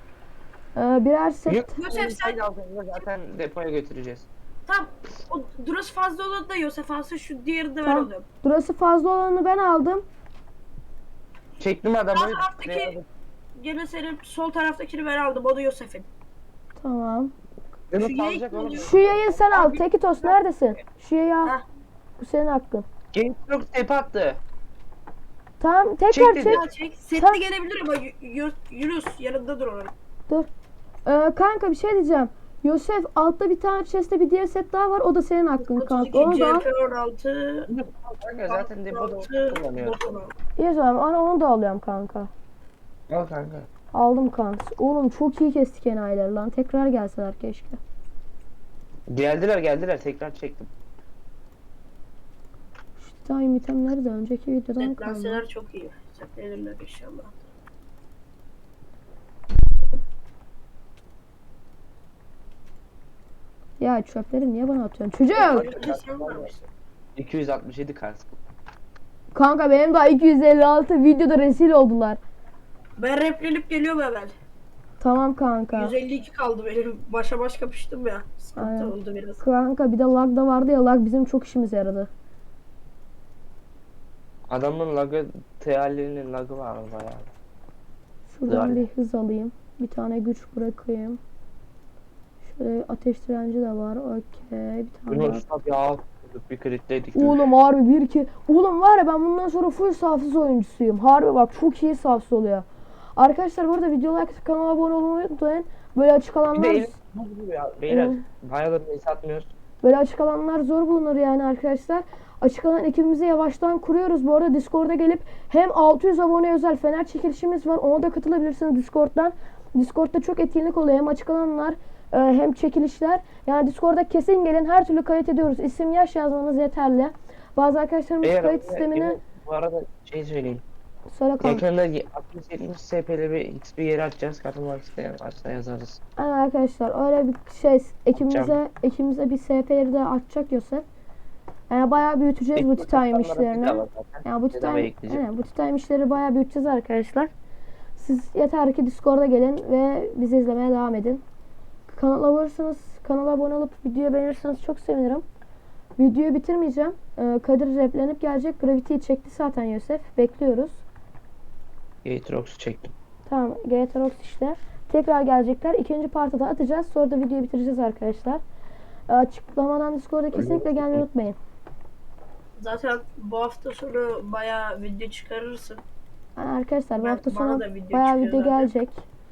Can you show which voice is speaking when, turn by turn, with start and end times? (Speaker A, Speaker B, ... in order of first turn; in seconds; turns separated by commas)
Speaker A: 0.8-1.7, Speaker B: 1.5-4.3, Speaker C: 1.7-2.4, Speaker C: 4.7-8.2, Speaker A: 7.8-10.0, Speaker B: 11.6-13.0, Speaker C: 12.1-12.9, Speaker C: 13.6-16.1, Speaker A: 16.8-17.3, Speaker B: 17.9-19.1, Speaker C: 17.9-18.9, Speaker A: 18.8-21.6, Speaker C: 19.5-20.3, Speaker A: 22.2-22.9, Speaker B: 23.1-24.4, Speaker A: 25.6-26.6, Speaker B: 26.1-26.6, Speaker C: 26.4-29.9, Speaker A: 31.0-36.7, Speaker C: 35.6-37.7, Speaker B: 37.7-40.0, Speaker C: 38.4-40.3, Speaker A: 40.6-42.3, Speaker B: 43.1-43.7, Speaker A: 43.9-47.8, Speaker B: 49.1-50.7, Speaker A: 53.0-55.4, Speaker C: 54.8-57.4, Speaker A: 63.8-65.7, Speaker C: 65.3-66.6, Speaker B: 65.4-66.5, Speaker B: 67.2-68.3, Speaker A: 69.3-72.2, Speaker C: 73.0-74.3, Speaker A: 75.0-75.9, Speaker C: 75.7-79.4, Speaker A: 78.6-82.1, Speaker B: 84.5-87.3, Speaker A: 88.3-91.2, Speaker B: 88.5-88.8, Speaker A: 92.5-95.4, Speaker B: 95.1-97.5, Speaker A: 97.1-106.9, Speaker B: 106.5-109.5, Speaker A: 107.9-108.2, Speaker A: 109.8-129.2, Speaker B: 128.2-130.6, Speaker A: 131.1-131.6, Speaker B: 131.4-136.0, Speaker A: 136.2-140.8, Speaker B: 138.2-138.6, Speaker A: 141.7-147.3, Speaker B: 142.6-145.2, Speaker A: 147.9-151.2, Speaker A: 151.9-155.2, Speaker A: 156.0-160.8, Speaker B: 162.0-162.9, Speaker A: 163.3-168.4, Speaker A: 169.1-171.4, Speaker B: 170.3-171.0, Speaker C: 172.6-175.8, Speaker A: 176.3-179.0, Speaker C: 177.0-178.7